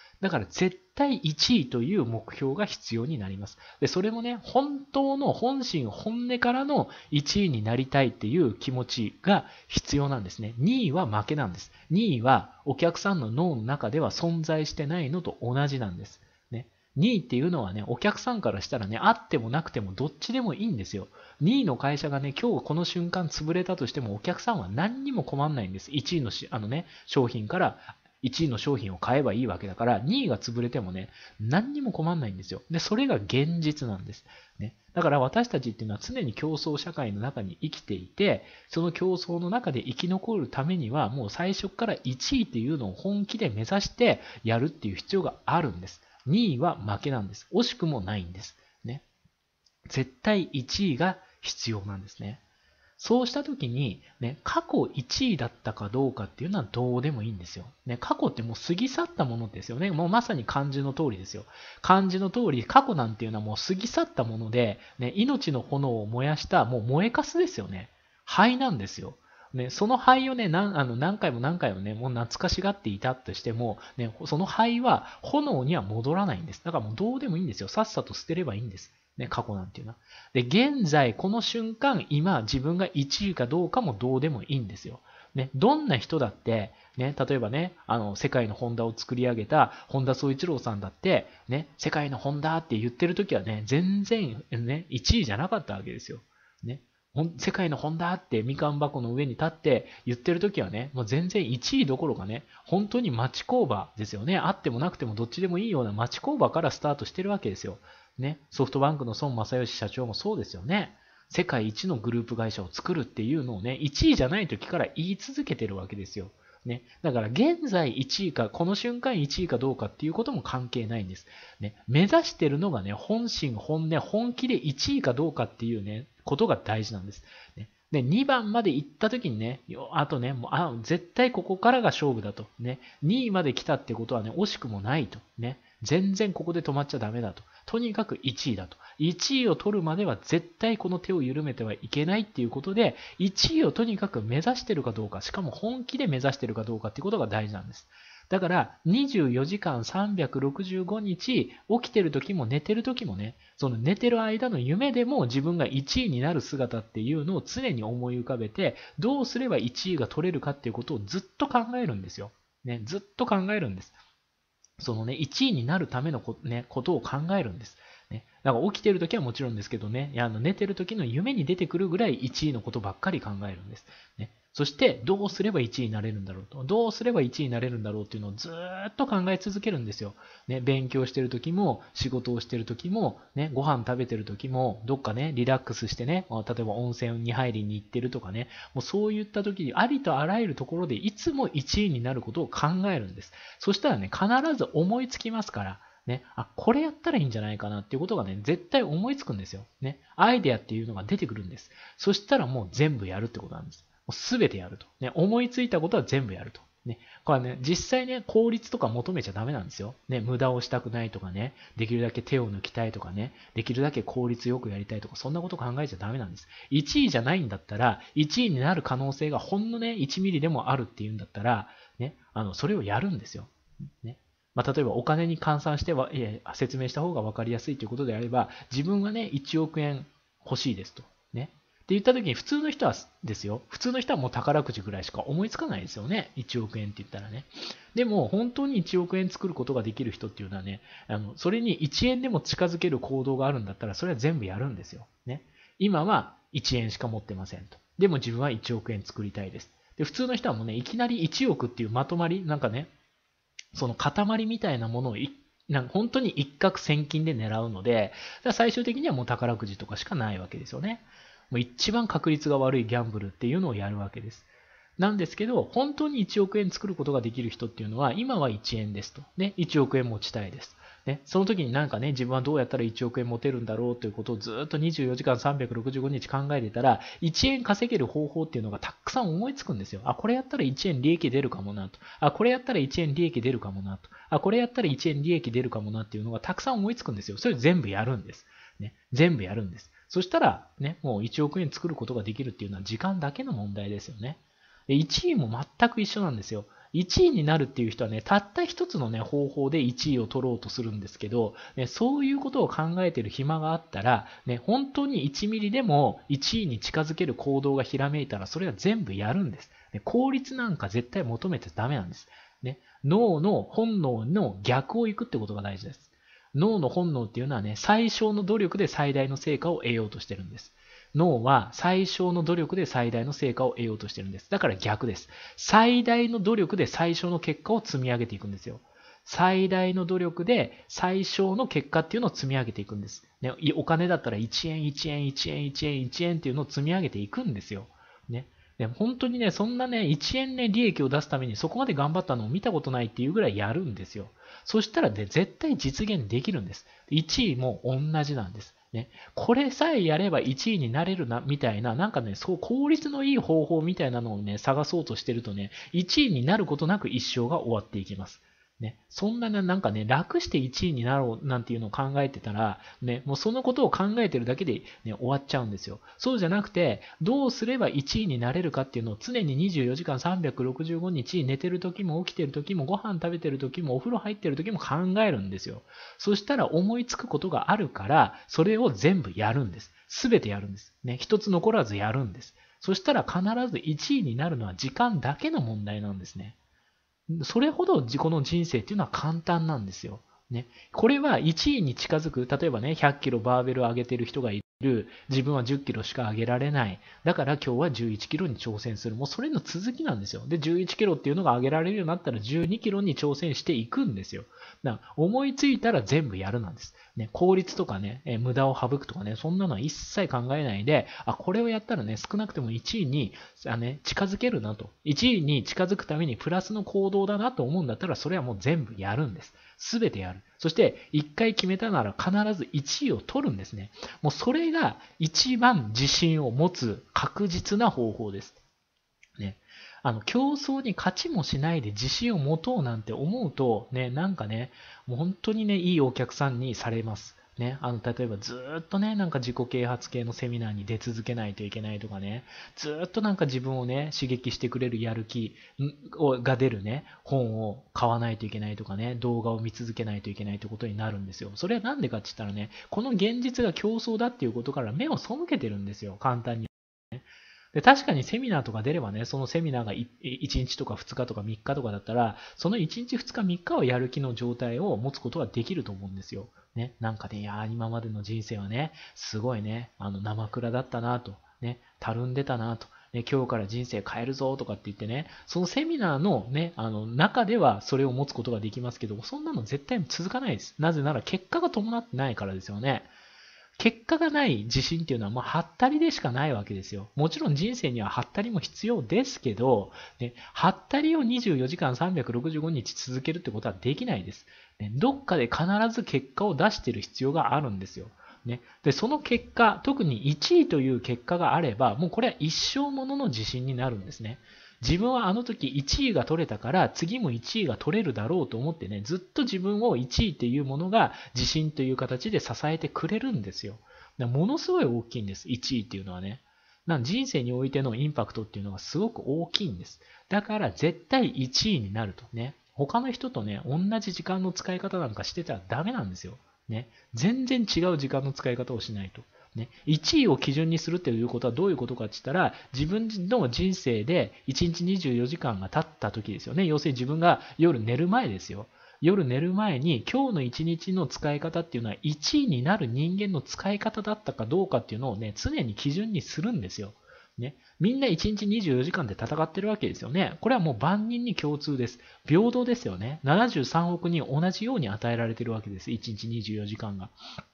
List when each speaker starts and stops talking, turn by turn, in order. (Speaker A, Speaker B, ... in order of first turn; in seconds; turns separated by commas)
Speaker A: 0.2-49.0, Speaker A: 49.9-52.4, Speaker A: 53.0-163.9, Speaker A: 164.8-252.9, Speaker A: 253.7-386.6, Speaker A: 387.3-428.6, Speaker A: 429.4-483.1, Speaker A: 483.8-557.2